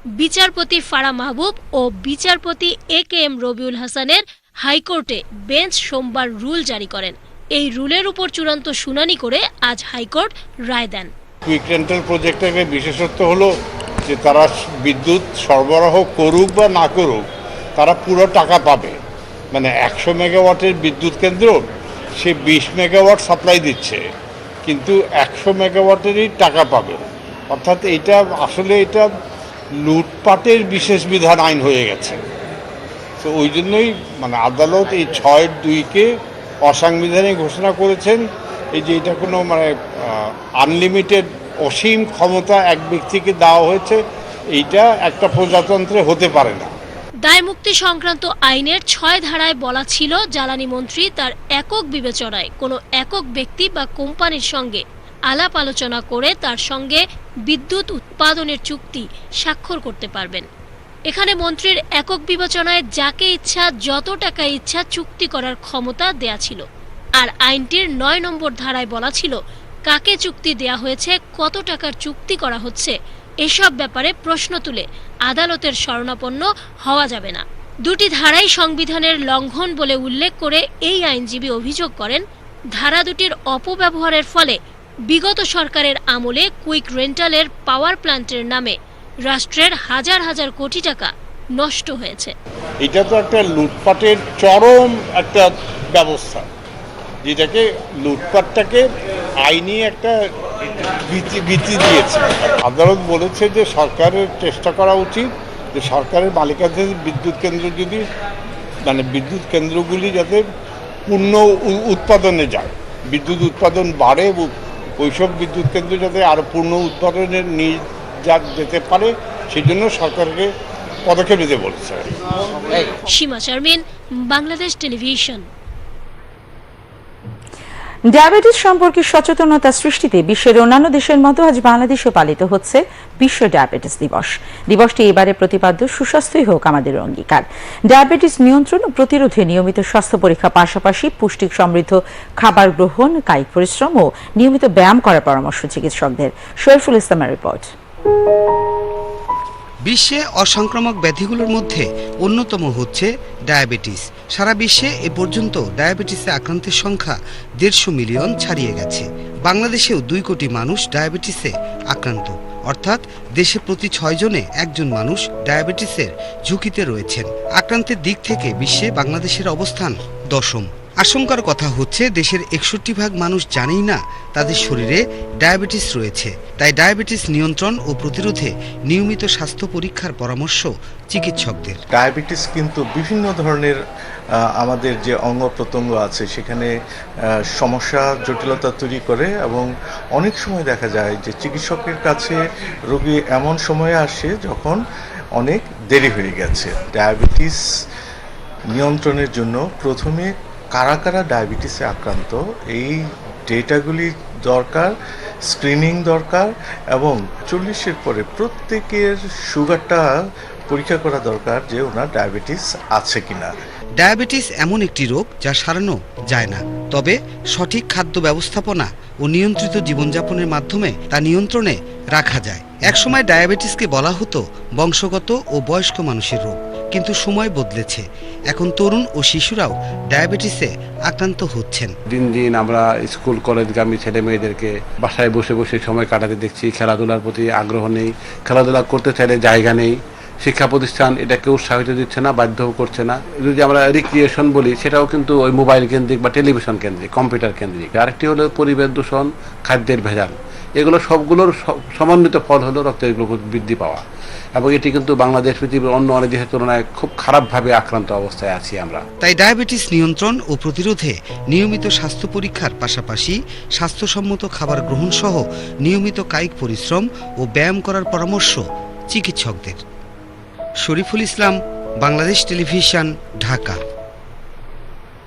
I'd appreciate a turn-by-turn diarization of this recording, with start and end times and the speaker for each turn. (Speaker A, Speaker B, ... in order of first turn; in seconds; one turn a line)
Speaker A: 0.2-11.1
Speaker B: 11.4-13.5
Speaker B: 14.1-17.2
Speaker B: 17.8-19.0
Speaker B: 19.5-24.0
Speaker B: 24.6-29.1
Speaker B: 29.8-32.2
Speaker B: 33.2-36.1
Speaker B: 36.6-44.0
Speaker B: 44.5-46.7
Speaker A: 47.2-60.5
Speaker A: 61.1-66.6
Speaker A: 67.2-84.6
Speaker A: 85.1-92.3
Speaker B: 92.8-96.5
Speaker B: 97.2-98.9
Speaker B: 99.4-100.2
Speaker B: 100.8-108.0
Speaker B: 108.8-110.4
Speaker B: 111.1-120.5
Speaker B: 121.0-122.1
Speaker A: 123.0-125.4
Speaker C: 128.1-147.7
Speaker D: 149.8-181.8
Speaker E: 181.9-183.8
Speaker E: 184.6-186.7
Speaker E: 187.5-194.8
Speaker E: 195.3-197.6
Speaker E: 198.7-204.9
Speaker E: 205.5-213.5
Speaker D: 214.0-231.9
Speaker F: 232.1-254.0
Speaker F: 254.5-259.0
Speaker D: 259.2-269.8
Speaker D: 270.8-273.8